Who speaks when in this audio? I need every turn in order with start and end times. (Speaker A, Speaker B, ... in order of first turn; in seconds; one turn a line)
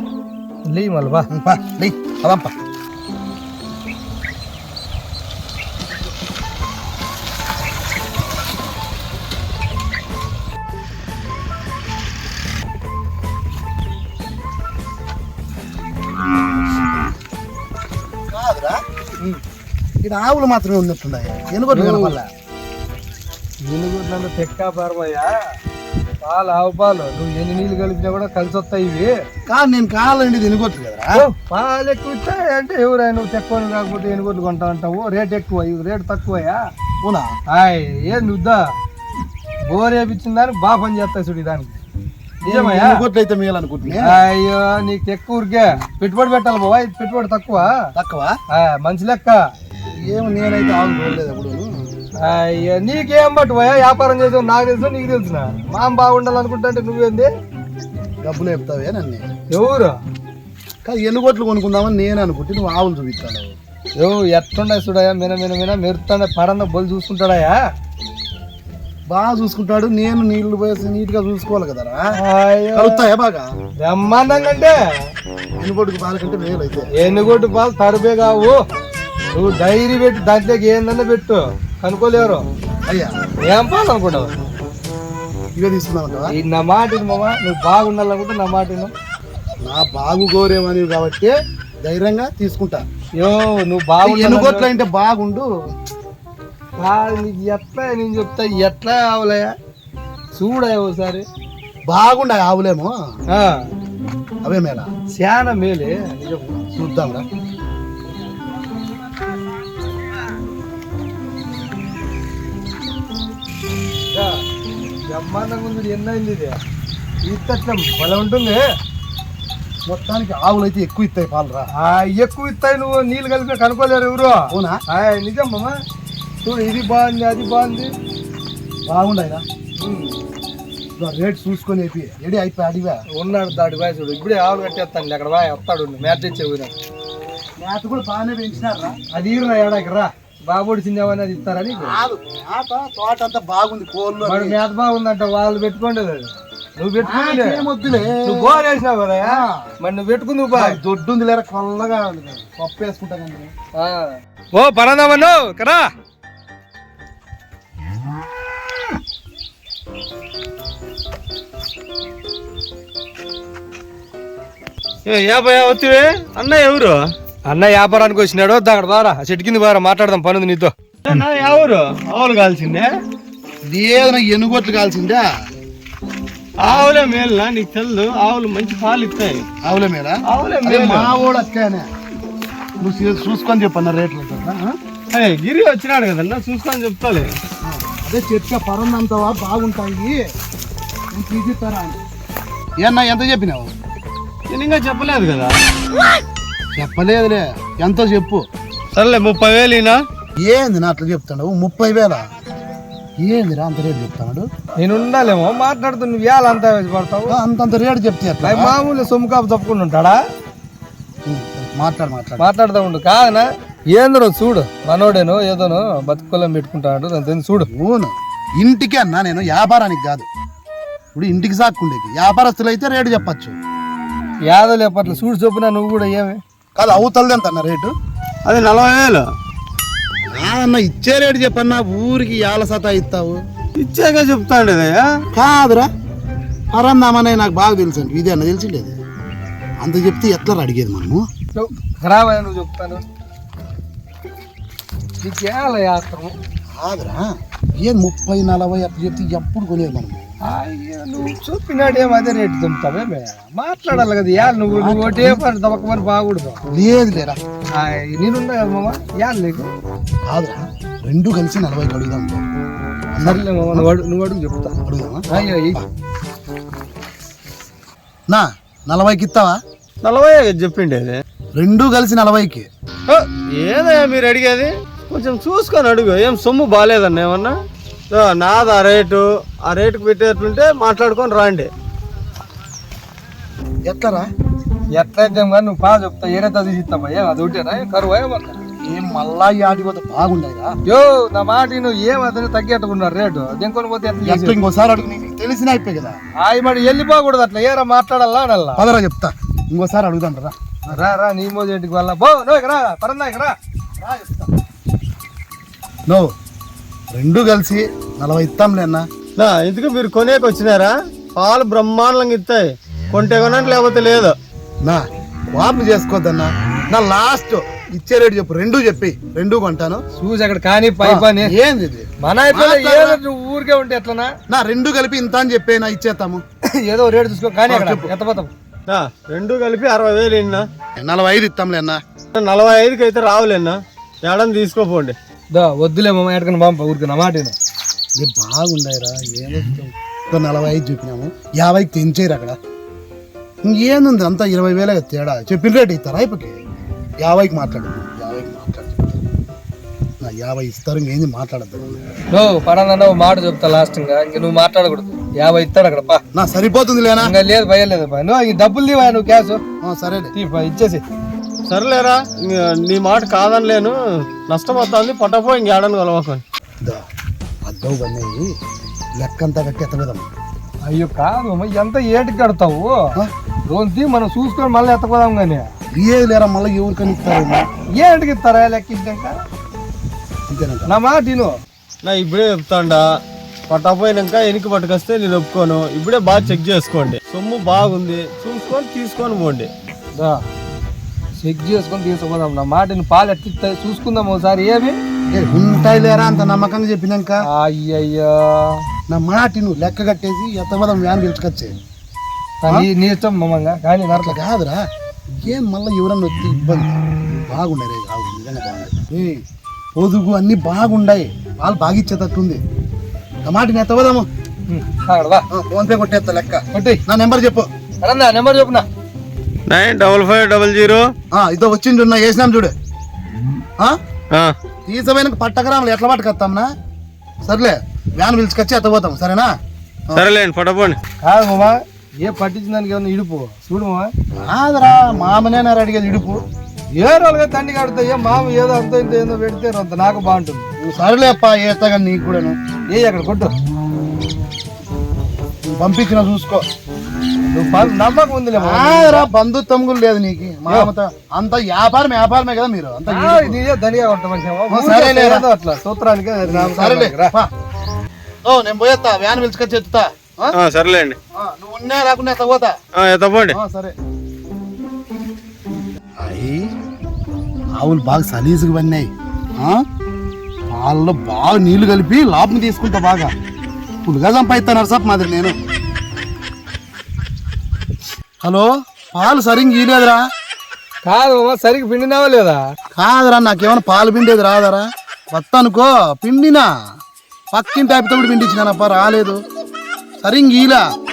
Speaker A: 0.7-1.3
Speaker B: 1.3-2.5
Speaker B: 18.3-18.8
Speaker B: 20.0-22.3
Speaker A: 21.7-22.2
Speaker A: 23.6-25.4
Speaker A: 26.2-29.2
Speaker B: 29.5-31.2
Speaker A: 31.2-36.6
Speaker B: 37.0-37.3
Speaker A: 37.5-38.7
Speaker A: 39.7-41.8
Speaker A: 42.4-43.0
Speaker B: 42.5-44.2
Speaker A: 44.0-47.7
Speaker B: 47.9-48.4
Speaker A: 48.5-49.4
Speaker B: 50.0-51.7
Speaker A: 52.2-57.3
Speaker B: 58.2-59.3
Speaker A: 59.5-60.0
Speaker B: 60.9-63.6
Speaker A: 64.0-67.6
Speaker B: 69.1-72.0
Speaker A: 72.2-73.0
Speaker B: 72.7-73.5
Speaker A: 73.8-74.8
Speaker B: 75.6-76.9
Speaker A: 77.0-78.6
Speaker A: 79.3-82.4
Speaker B: 82.9-83.1
Speaker A: 83.5-84.3
Speaker B: 85.6-86.3
Speaker A: 86.3-88.9
Speaker B: 89.7-92.8
Speaker A: 93.2-94.7
Speaker B: 94.0-95.5
Speaker A: 96.8-99.5
Speaker A: 100.3-101.3
Speaker B: 101.9-103.0
Speaker A: 103.3-103.7
Speaker B: 104.4-104.9
Speaker A: 105.2-106.6
Speaker B: 106.7-107.2
Speaker A: 114.1-114.4
Speaker A: 115.1-116.6
Speaker A: 117.2-118.7
Speaker B: 119.9-121.7
Speaker A: 121.8-125.8
Speaker B: 124.5-124.8
Speaker A: 126.4-127.9
Speaker B: 128.9-129.4
Speaker A: 129.8-130.2
Speaker B: 131.0-133.0
Speaker A: 133.1-136.7
Speaker B: 137.6-139.0
Speaker A: 139.1-142.0
Speaker B: 141.8-144.6
Speaker A: 144.2-147.7
Speaker B: 147.0-148.6
Speaker A: 148.2-150.8
Speaker B: 149.2-149.7
Speaker B: 150.5-153.5
Speaker A: 153.8-155.9
Speaker C: 165.1-167.1
Speaker A: 167.5-170.7
Speaker C: 171.0-172.9
Speaker B: 173.7-175.2
Speaker C: 176.6-179.5
Speaker B: 179.6-181.9
Speaker C: 180.3-181.2
Speaker B: 182.8-184.8
Speaker C: 185.1-187.3
Speaker B: 187.6-190.2
Speaker B: 191.1-192.0
Speaker B: 192.8-193.7
Speaker C: 194.5-195.6
Speaker B: 196.8-198.4
Speaker C: 199.0-200.0
Speaker B: 200.4-202.3
Speaker B: 203.2-204.5
Speaker A: 204.8-207.4
Speaker B: 207.3-208.8
Speaker A: 208.4-210.2
Speaker B: 211.3-212.5
Speaker A: 212.4-217.7
Speaker B: 217.7-220.3
Speaker B: 221.1-223.6
Speaker A: 224.5-226.4
Speaker B: 226.8-227.9
Speaker C: 228.5-229.3
Speaker B: 230.4-233.4
Speaker C: 233.8-235.1
Speaker B: 235.3-235.9
Speaker B: 236.7-239.0
Speaker B: 239.8-241.2
Speaker A: 241.5-243.0
Speaker A: 245.2-246.4
Speaker B: 246.8-250.3
Speaker A: 250.4-256.6
Speaker B: 254.8-255.4
Speaker B: 256.7-257.4
Speaker A: 257.8-259.7
Speaker B: 260.2-262.4
Speaker B: 263.1-263.9
Speaker A: 263.2-264.8
Speaker B: 264.9-265.9
Speaker A: 265.3-265.8
Speaker B: 268.3-269.6
Speaker C: 270.0-271.2
Speaker B: 271.6-272.7
Speaker C: 273.1-277.6
Speaker C: 278.1-281.7
Speaker B: 283.9-284.3
Speaker A: 284.9-288.6
Speaker B: 288.8-290.8
Speaker A: 290.9-294.6
Speaker B: 294.2-296.2
Speaker A: 296.4-298.9
Speaker B: 298.8-301.1
Speaker A: 300.9-303.6
Speaker B: 304.0-304.5
Speaker B: 307.1-309.1
Speaker C: 309.4-314.4
Speaker B: 314.8-320.0
Speaker A: 320.1-321.5
Speaker B: 321.0-323.2
Speaker A: 322.2-324.3
Speaker B: 324.5-326.4
Speaker A: 326.7-328.5
Speaker B: 327.7-328.1
Speaker C: 328.9-330.6
Speaker B: 331.0-332.0
Speaker C: 332.4-335.1
Speaker A: 335.5-337.6
Speaker B: 338.2-342.6
Speaker B: 343.6-346.6
Speaker B: 347.2-349.2
Speaker B: 350.2-352.0
Speaker A: 352.3-356.2
Speaker B: 356.4-357.3
Speaker A: 357.2-359.6
Speaker B: 359.8-360.3
Speaker A: 360.4-361.0
Speaker C: 361.7-366.4
Speaker B: 367.6-368.5
Speaker B: 369.2-370.3
Speaker A: 370.9-373.0
Speaker A: 373.7-375.7
Speaker B: 375.9-377.6
Speaker A: 378.0-379.4
Speaker B: 380.5-380.9
Speaker A: 380.9-381.6
Speaker C: 382.0-383.1
Speaker C: 383.7-389.7
Speaker A: 390.1-390.5
Speaker A: 391.4-395.0
Speaker B: 395.3-397.4
Speaker A: 397.5-398.8
Speaker B: 399.1-401.7
Speaker A: 402.6-404.4
Speaker B: 404.1-409.4
Speaker B: 410.0-412.6
Speaker B: 413.4-414.3
Speaker A: 414.7-415.4
Speaker B: 415.5-417.7
Speaker A: 416.7-417.0
Speaker A: 418.0-418.9
Speaker C: 419.7-421.1
Speaker B: 421.3-422.7
Speaker C: 424.3-424.6
Speaker B: 424.9-426.7
Speaker B: 427.4-429.5
Speaker C: 430.1-431.0
Speaker A: 431.2-434.1
Speaker B: 434.4-436.4
Speaker A: 436.9-440.7
Speaker B: 440.8-442.6
Speaker A: 442.9-443.5
Speaker B: 445.6-446.6
Speaker A: 447.5-449.3
Speaker B: 448.6-453.6
Speaker A: 453.1-457.4
Speaker B: 454.7-455.5
Speaker B: 456.5-457.5
Speaker B: 458.4-460.5
Speaker C: 460.6-461.2
Speaker B: 461.3-462.8
Speaker C: 463.0-463.6
Speaker B: 463.5-463.9
Speaker B: 466.2-466.7
Speaker B: 467.8-469.8
Speaker B: 470.7-473.3
Speaker B: 474.1-475.6
Speaker B: 478.4-480.2
Speaker A: 481.1-482.6
Speaker B: 483.0-486.7
Speaker B: 487.5-489.4
Speaker B: 490.2-490.9